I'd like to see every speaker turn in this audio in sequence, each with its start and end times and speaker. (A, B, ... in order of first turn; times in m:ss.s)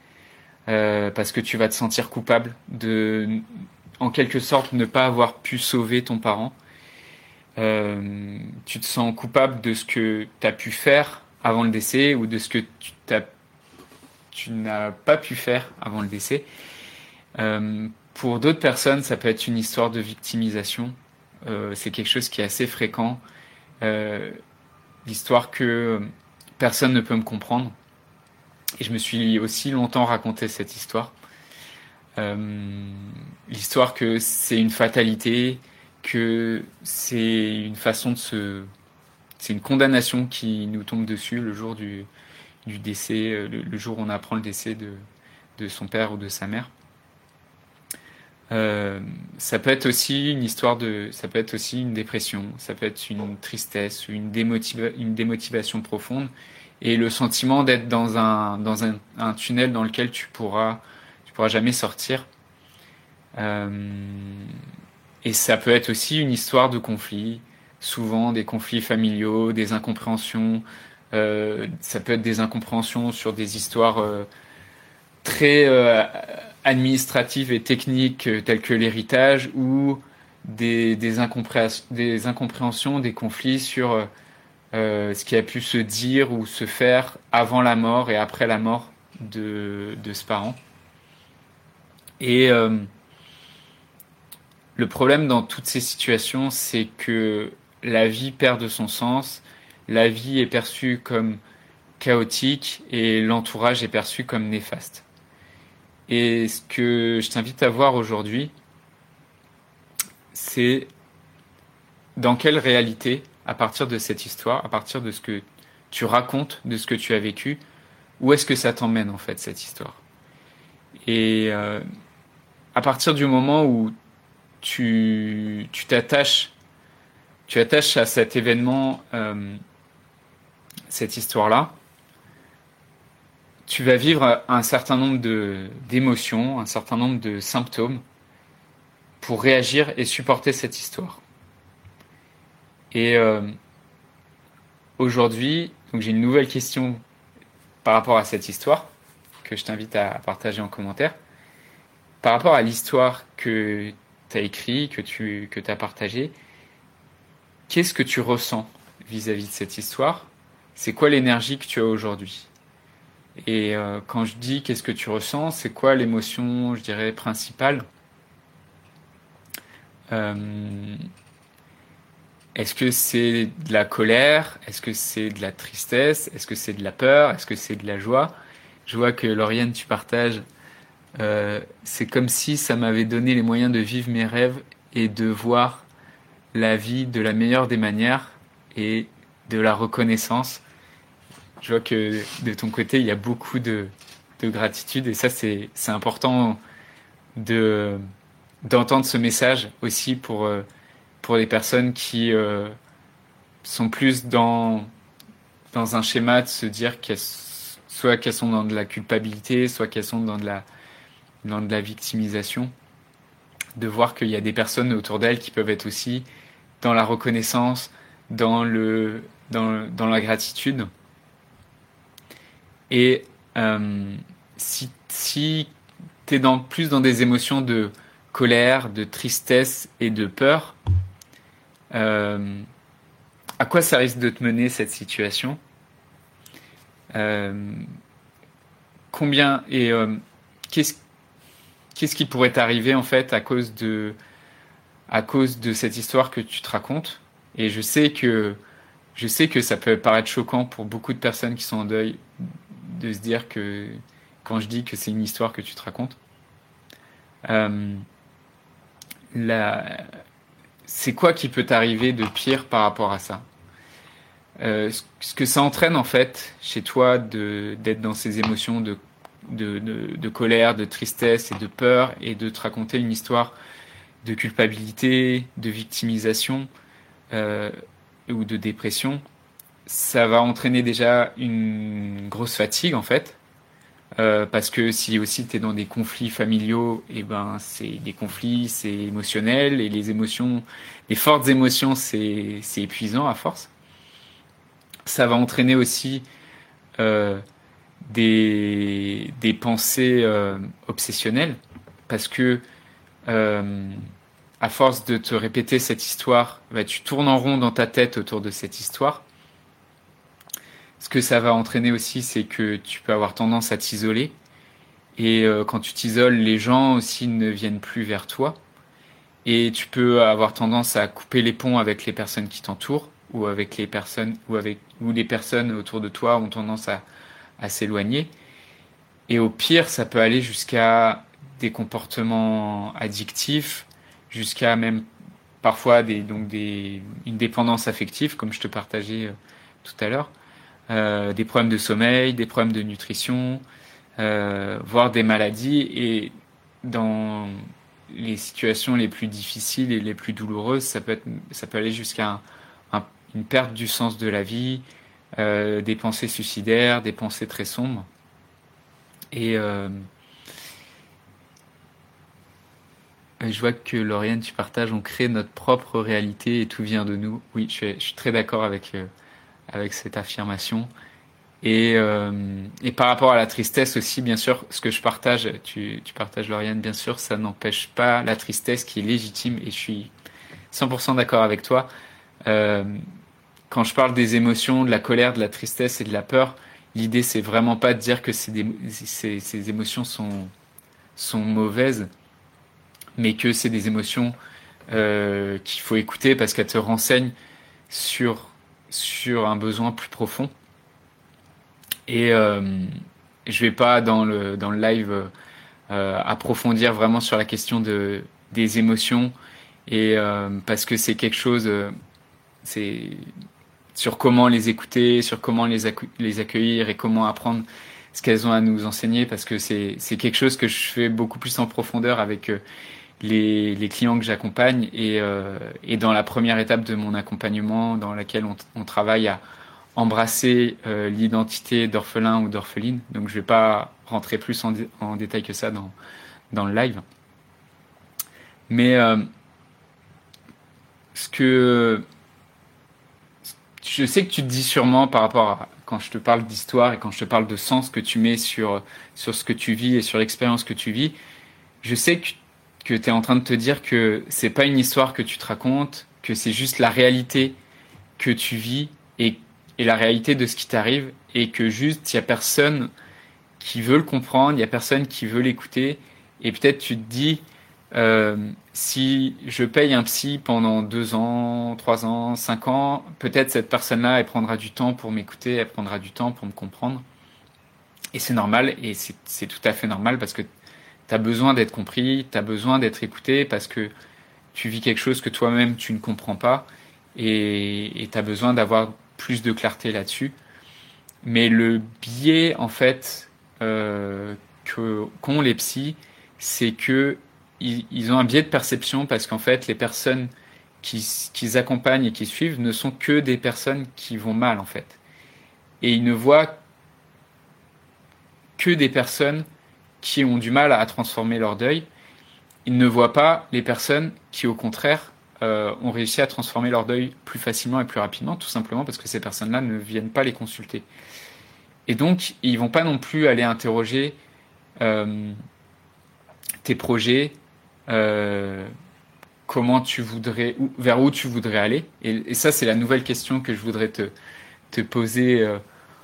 0:00.7-0:03.4 A
0:04.0-0:06.6 A
0:07.6-0:13.3 A
0:14.3-0:16.5 A
0:17.4-0:23.2 A
0:23.8-0:24.4 A
0:25.0-0:27.8 A
0:28.8-0:31.1 A
0:32.2-0:38.7 A
0:39.4-0:42.1 A
0:42.6-0:45.0 A
0:45.6-0:46.7 A
0:48.5-1:02.3 A
1:03.4-1:04.6 A
1:05.2-1:14.3 A
1:15.2-1:24.1 A
1:24.7-1:30.6 A
1:32.2-1:32.9 A
1:34.8-1:41.4 A
1:42.0-1:45.1 A
1:46.1-1:48.5 A
1:50.3-1:50.9 A
1:52.2-1:57.6 A
1:58.2-2:00.0 A
2:01.0-2:01.8 A
2:02.7-2:03.9 A
2:04.6-2:06.5 A
2:07.5-2:09.6 A
2:10.9-2:11.7 A
2:13.7-2:18.0 A
2:19.2-2:21.2 A
2:22.9-2:23.5 A
2:25.0-2:27.0 A
2:27.8-2:28.9 A
2:29.4-2:31.2 A
2:32.2-2:36.3 A
2:37.7-2:42.5 A
2:43.4-2:47.8 A
2:50.1-2:51.0 A
2:52.6-2:58.3 A
2:58.9-3:00.4 A
3:01.2-3:05.9 A
3:06.5-3:10.6 A
3:11.6-3:16.6 A
3:17.4-3:18.0 A
3:18.6-3:20.6 A
3:21.2-3:22.8 A
3:23.6-3:24.9 A
3:25.7-3:30.6 A
3:31.4-3:32.7 A
3:33.8-3:36.3 A
3:36.8-3:40.9 A
3:42.9-3:45.7 A
3:46.3-3:50.8 A
3:51.9-3:52.7 A
3:53.6-3:55.6 A
3:57.1-3:57.8 A
3:59.1-4:00.2 A
4:00.7-4:01.0 A
4:02.0-4:04.2 A
4:05.1-4:08.6 A
4:09.2-4:16.2 A
4:17.5-4:18.0 A
4:19.3-4:20.1 A
4:20.9-4:23.4 A
4:24.6-4:33.6 A
4:34.2-4:36.7 A
4:37.3-4:37.8 A
4:38.3-4:39.2 A
4:39.9-4:43.4 A
4:44.2-4:53.7 A
4:55.1-4:56.2 A
4:57.0-4:57.4 A
4:58.0-5:02.6 A
5:03.3-5:04.0 A
5:04.6-5:09.2 A
5:11.0-5:14.4 A
5:15.2-5:18.6 A
5:19.4-5:27.0 A
5:27.6-5:28.3 A
5:29.3-5:35.0 A
5:35.6-5:40.3 A
5:40.9-5:43.6 A
5:44.2-5:46.3 A
5:46.8-5:47.6 A
5:48.1-5:54.8 A
5:55.4-5:58.1 A
5:59.3-6:00.1 A
6:03.4-6:09.1 A
6:09.7-6:10.9 A
6:11.6-6:20.1 A
6:20.7-6:21.9 A
6:22.5-6:23.0 A
6:23.7-6:30.5 A
6:31.2-6:32.1 A
6:33.2-6:34.4 A
6:34.9-6:37.3 A
6:37.9-6:40.5 A
6:42.1-6:42.9 A
6:43.5-6:45.3 A
6:45.9-6:49.3 A
6:49.9-6:51.9 A
6:52.6-6:53.3 A
6:54.0-7:02.6 A
7:03.2-7:09.4 A
7:10.0-7:15.9 A
7:16.5-7:17.0 A
7:18.7-7:19.3 A
7:21.2-7:22.0 A
7:23.8-7:31.2 A
7:31.8-7:37.6 A
7:38.2-7:42.9 A
7:43.6-7:57.0 A
7:58.1-8:00.5 A
8:01.1-8:03.9 A
8:04.5-8:10.4 A
8:11.2-8:20.3 A
8:20.8-8:25.0 A
8:25.8-8:26.6 A
8:28.6-8:29.4 A
8:30.0-8:31.9 A
8:32.6-8:40.9 A
8:41.9-8:44.2 A
8:44.8-8:45.4 A
8:46.6-8:47.4 A
8:47.9-8:48.7 A
8:49.5-8:54.1 A
8:54.7-8:55.6 A